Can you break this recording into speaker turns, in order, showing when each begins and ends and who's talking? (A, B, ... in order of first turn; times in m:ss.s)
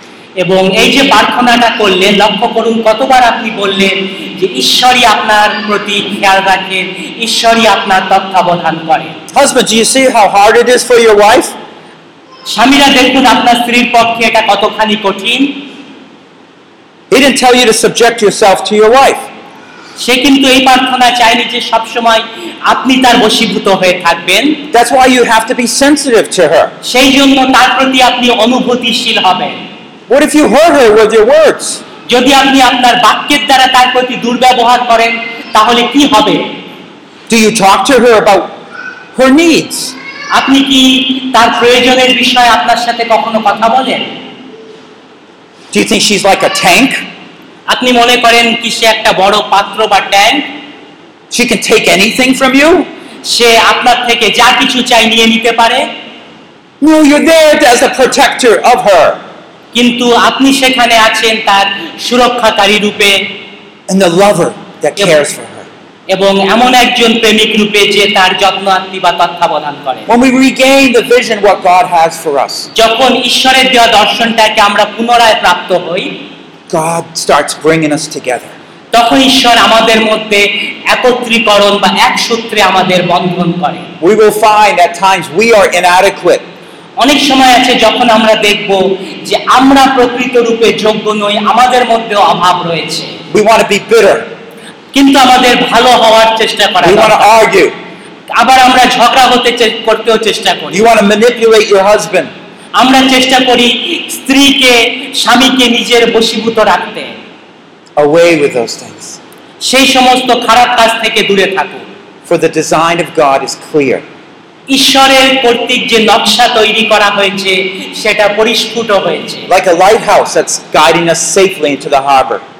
0:00.4-0:09.2 A
0:09.3-0:11.6 B
0:12.5-0:15.6 A
0:17.1-0:19.3 B
0:20.0-0:24.7 A
0:24.7-0:26.8 B
0:26.8-0:29.6 A
0:30.1-0:31.8 B
0:32.1-0:36.6 A
0:37.3-0:38.5 B
0:39.2-0:40.0 B
0:40.3-0:44.1 A
0:45.7-0:47.0 B
0:47.7-0:50.5 A
0:51.3-0:52.9 B
0:53.3-0:55.9 A
0:56.8-0:59.2 B
0:59.7-1:03.3 A
1:03.9-1:05.7 B
1:06.1-1:10.1 A
1:10.1-1:12.7 B
1:12.7-1:16.2 A
1:16.7-1:18.6 B
1:18.9-1:23.9 A
1:24.0-1:26.4 B
1:27.0-1:33.2 A
1:33.3-1:34.3 B
1:34.9-1:37.5 A
1:36.8-1:37.8 B
1:38.3-1:40.9 A
1:40.7-1:42.3 B
1:42.8-1:47.1 A
1:48.0-1:49.2 B
1:49.6-1:51.9 A
1:52.2-1:54.0 B
1:54.7-1:59.5 A
1:59.5-2:02.4 B